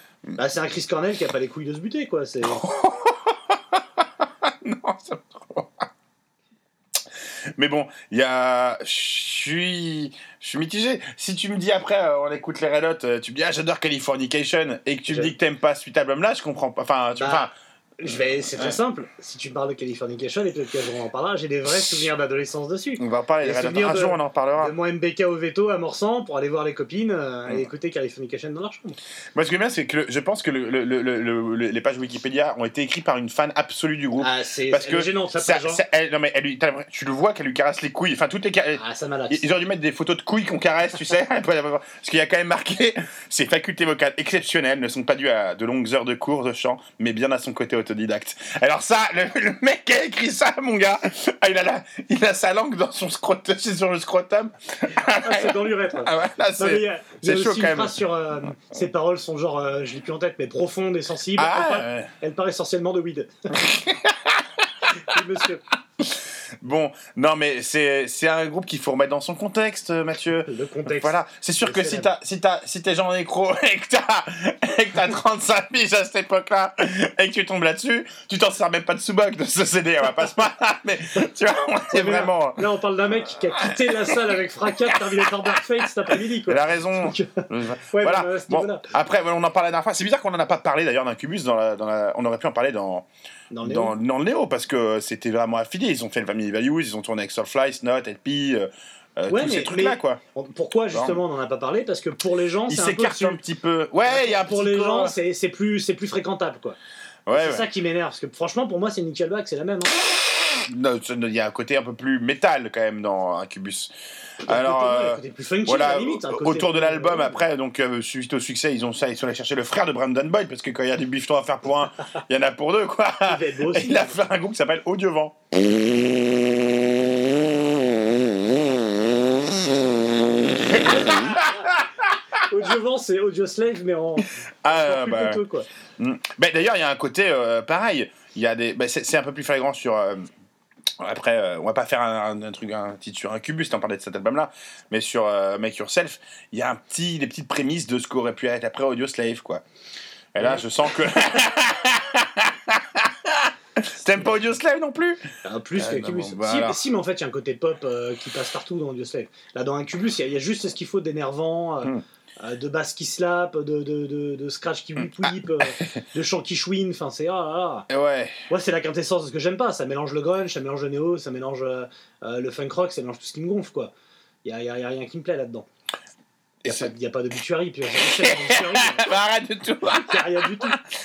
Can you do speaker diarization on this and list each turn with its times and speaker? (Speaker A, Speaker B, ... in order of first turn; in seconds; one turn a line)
Speaker A: 0.4-2.6
Speaker B: 2.4-5.9
Speaker B: 7.6-17.5
Speaker A: 15.1-15.3
Speaker A: 17.2-17.5
Speaker A: 18.0-29.0
Speaker B: 23.0-24.7
Speaker B: 29.3-58.0
Speaker A: 34.2-35.8
Speaker A: 38.8-39.4
Speaker A: 55.1-63.5
Speaker B: 61.3-62.1
Speaker B: 63.5-64.5
Speaker A: 65.0-65.6
Speaker B: 66.0-82.7
Speaker A: 70.5-72.1
Speaker A: 81.9-88.8
Speaker B: 83.6-84.0
Speaker B: 86.4-93.0
Speaker A: 93.5-93.9
Speaker B: 93.6-100.2
Speaker A: 99.3-103.4
Speaker B: 100.9-101.2
Speaker B: 102.7-105.1
Speaker A: 104.1-106.8
Speaker B: 107.3-107.7
Speaker A: 107.3-109.9
Speaker B: 110.6-113.9
Speaker B: 114.4-125.3
Speaker A: 114.5-117.4
Speaker A: 123.2-124.2
Speaker A: 130.7-131.7
Speaker B: 130.7-131.8
Speaker A: 132.4-135.7
Speaker B: 134.6-135.4
Speaker B: 136.0-140.3
Speaker B: 141.0-149.6
Speaker B: 150.3-155.2
Speaker A: 155.4-167.8
Speaker B: 155.8-156.8
Speaker B: 165.2-166.0
Speaker B: 167.9-168.4
Speaker A: 168.5-173.9
Speaker A: 174.4-175.7
Speaker A: 176.6-179.1
Speaker B: 178.1-180.8
Speaker A: 179.9-180.8